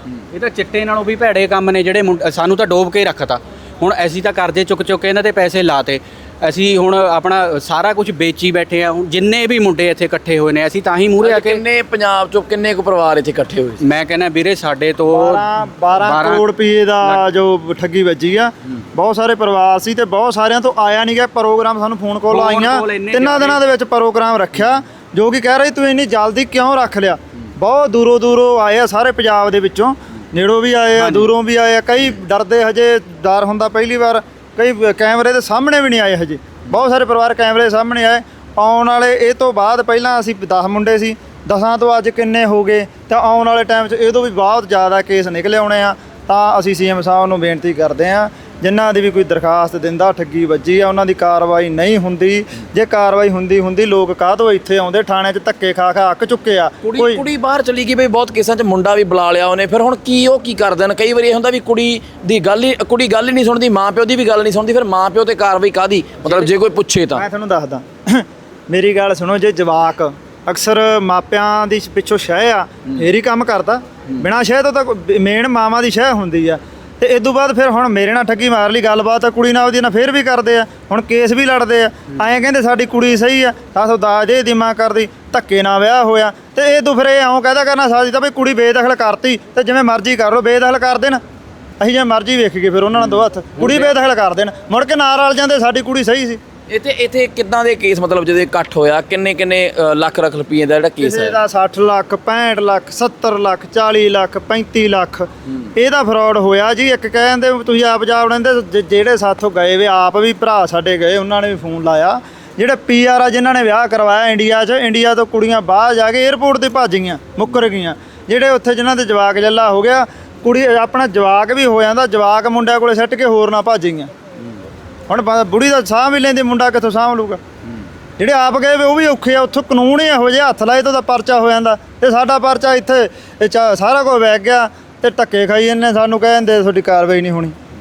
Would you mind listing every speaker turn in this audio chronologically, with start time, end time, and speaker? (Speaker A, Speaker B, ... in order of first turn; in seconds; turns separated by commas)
Speaker A: 0.3-11.6, Speaker B: 11.2-13.8, Speaker A: 13.8-15.5, Speaker C: 15.1-57.2, Speaker A: 16.0-16.4, Speaker A: 22.3-23.6, Speaker A: 31.0-31.3, Speaker B: 56.8-67.2, Speaker C: 67.2-91.2, Speaker C: 91.8-96.4, Speaker B: 96.7-101.4, Speaker C: 101.0-124.1, Speaker C: 125.1-127.4, Speaker C: 128.2-137.5